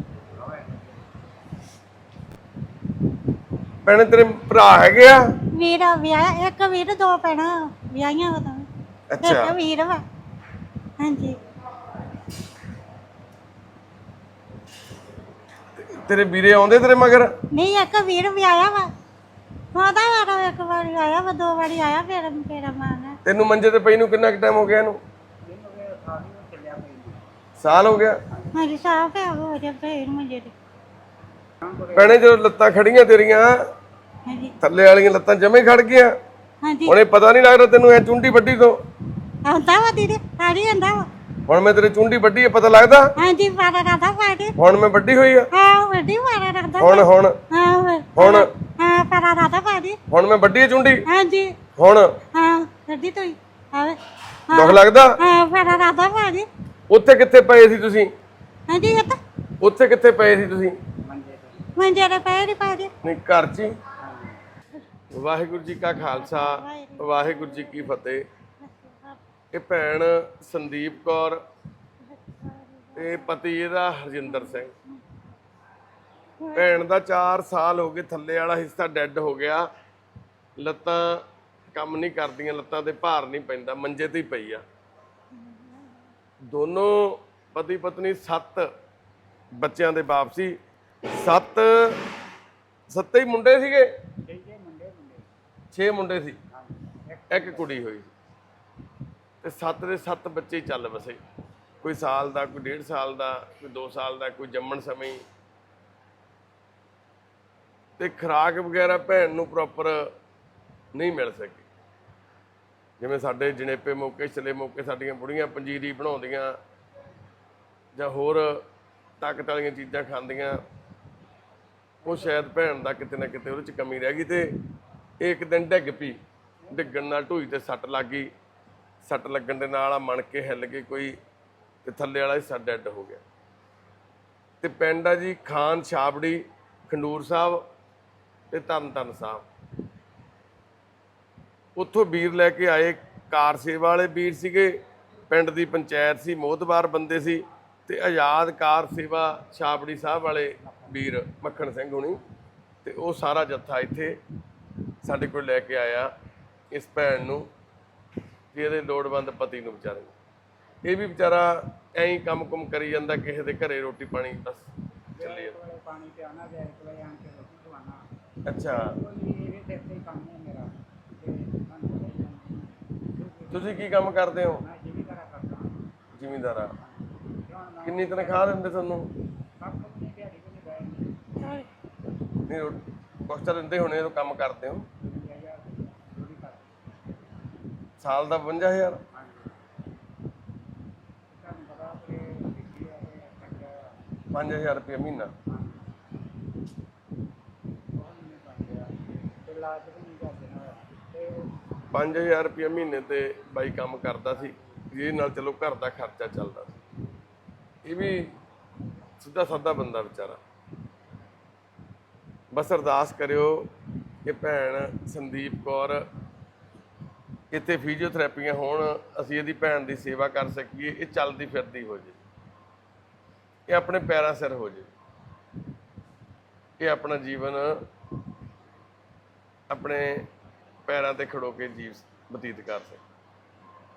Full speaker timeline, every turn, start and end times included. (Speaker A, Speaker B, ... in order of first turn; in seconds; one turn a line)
Speaker A: 0.5-1.0
Speaker B: 3.8-5.2
Speaker C: 5.5-8.7
Speaker B: 9.1-9.6
Speaker C: 9.2-10.0
Speaker C: 11.0-11.4
Speaker B: 15.8-17.3
Speaker C: 17.5-18.9
Speaker C: 19.8-23.2
Speaker B: 23.2-25.0
Speaker A: 25.5-27.2
Speaker B: 27.6-28.2
Speaker C: 28.5-30.5
Speaker B: 31.9-33.5
Speaker C: 34.3-34.5
Speaker B: 34.6-36.1
Speaker C: 36.6-36.9
Speaker B: 36.9-38.8
Speaker C: 39.5-41.1
Speaker B: 41.5-43.1
Speaker C: 43.2-44.5
Speaker B: 44.6-45.5
Speaker C: 45.5-50.0
Speaker B: 46.8-47.4
Speaker B: 48.2-48.5
Speaker B: 50.1-51.0
Speaker C: 51.1-51.5
Speaker B: 51.8-52.1
Speaker C: 52.3-54.0
Speaker C: 54.5-56.5
Speaker B: 54.5-55.2
Speaker B: 56.9-58.1
Speaker C: 58.7-59.2
Speaker B: 59.6-60.8
Speaker A: 61.1-61.6
Speaker C: 61.8-62.9
Speaker B: 63.0-63.8
Speaker B: 65.1-68.2
Speaker C: 66.2-67.9
Speaker C: 68.6-69.2
Speaker B: 69.5-71.4
Speaker C: 72.0-73.3
Speaker B: 73.0-74.7
Speaker C: 74.2-75.0
Speaker C: 76.4-76.8
Speaker B: 76.5-79.7
Speaker B: 80.6-84.6
Speaker B: 86.5-88.7
Speaker B: 89.6-90.5
Speaker B: 91.1-92.0
Speaker B: 92.9-93.9
Speaker A: 94.3-95.2
Speaker B: 95.7-96.4
Speaker A: 96.6-97.6
Speaker B: 97.3-98.1
Speaker B: 99.4-101.2
Speaker B: 101.8-105.2
Speaker B: 108.0-110.1
Speaker B: 110.9-111.7
Speaker B: 113.0-116.5
Speaker B: 118.0-118.6
Speaker B: 119.2-120.6
Speaker B: 122.1-124.5
Speaker B: 125.2-126.2
Speaker B: 126.7-128.3
Speaker B: 129.0-131.1
Speaker B: 131.8-133.2
Speaker B: 134.6-137.6
Speaker B: 138.5-139.4
Speaker B: 141.8-144.8
Speaker B: 145.3-152.2
Speaker B: 152.8-154.2
Speaker B: 155.0-156.1
Speaker B: 156.7-157.4
Speaker B: 158.5-160.1
Speaker B: 160.8-164.7
Speaker B: 165.2-165.6
Speaker A: 165.4-168.0
Speaker B: 168.4-168.9
Speaker A: 169.0-170.7
Speaker A: 171.2-172.6
Speaker A: 173.2-173.5
Speaker B: 173.5-174.6
Speaker A: 174.7-175.7
Speaker B: 176.1-176.7
Speaker A: 177.5-178.4
Speaker B: 177.8-179.1
Speaker A: 179.6-180.9
Speaker C: 181.4-181.7
Speaker B: 182.5-184.9
Speaker A: 185.2-186.6
Speaker B: 188.0-189.0
Speaker A: 191.4-193.7
Speaker B: 194.3-195.3
Speaker A: 198.0-198.9
Speaker A: 199.5-201.3
Speaker B: 201.9-206.7
Speaker B: 207.9-208.3
Speaker B: 209.2-210.4
Speaker B: 212.5-213.7
Speaker B: 214.2-216.1
Speaker B: 217.5-222.2
Speaker B: 223.7-224.9
Speaker B: 226.8-227.8
Speaker B: 229.7-230.2
Speaker B: 230.9-233.0